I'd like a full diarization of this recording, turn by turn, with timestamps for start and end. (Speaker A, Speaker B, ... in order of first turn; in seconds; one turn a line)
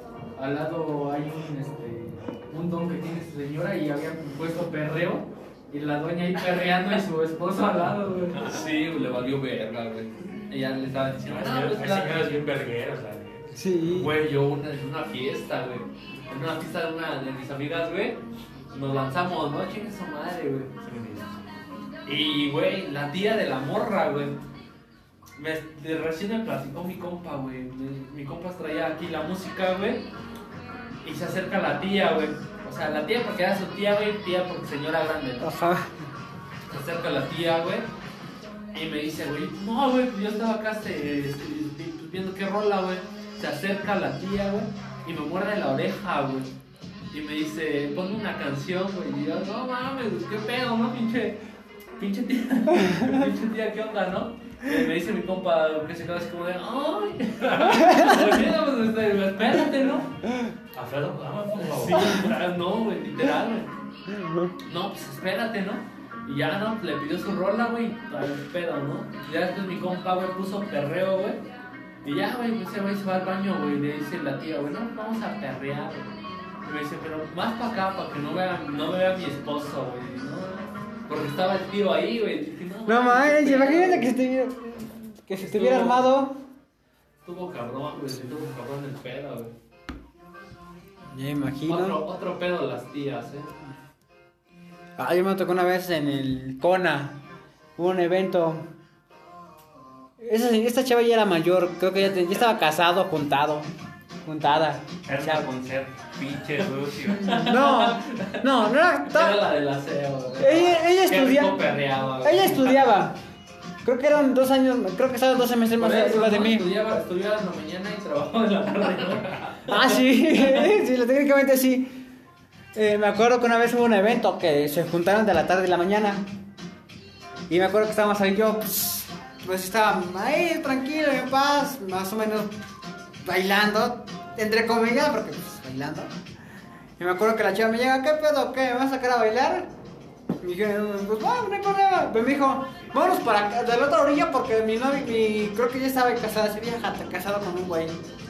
Speaker A: 0.4-8.5
Speaker B: 8.3-12.4
Speaker C: 11.2-13.6
Speaker D: 13.6-14.1
Speaker B: 13.8-18.2
Speaker B: 18.7-20.7
Speaker C: 20.8-21.4
Speaker B: 22.1-24.4
Speaker B: 25.4-30.0
Speaker B: 31.0-35.5
Speaker D: 35.4-36.0
Speaker B: 36.7-37.9
Speaker B: 38.7-46.5
Speaker B: 47.1-51.4
Speaker B: 52.0-60.1
Speaker D: 57.8-58.3
Speaker C: 60.7-62.4
Speaker B: 61.6-63.7
Speaker D: 64.1-64.5
Speaker B: 64.7-71.4
Speaker B: 72.0-76.1
Speaker B: 76.6-84.1
Speaker D: 82.9-86.4
Speaker B: 85.4-86.1
Speaker B: 87.2-89.5
Speaker D: 91.1-92.0
Speaker B: 91.7-93.5
Speaker D: 95.0-97.2
Speaker D: 97.8-98.7
Speaker D: 100.2-103.7
Speaker D: 104.2-105.5
Speaker E: 105.1-107.5
Speaker B: 107.1-112.8
Speaker D: 107.2-109.5
Speaker D: 110.4-111.7
Speaker D: 112.2-113.2
Speaker D: 113.8-116.7
Speaker B: 115.8-120.0
Speaker D: 119.7-122.0
Speaker D: 122.7-126.2
Speaker D: 127.5-132.5
Speaker D: 133.2-136.1
Speaker D: 137.0-139.7
Speaker D: 140.4-148.0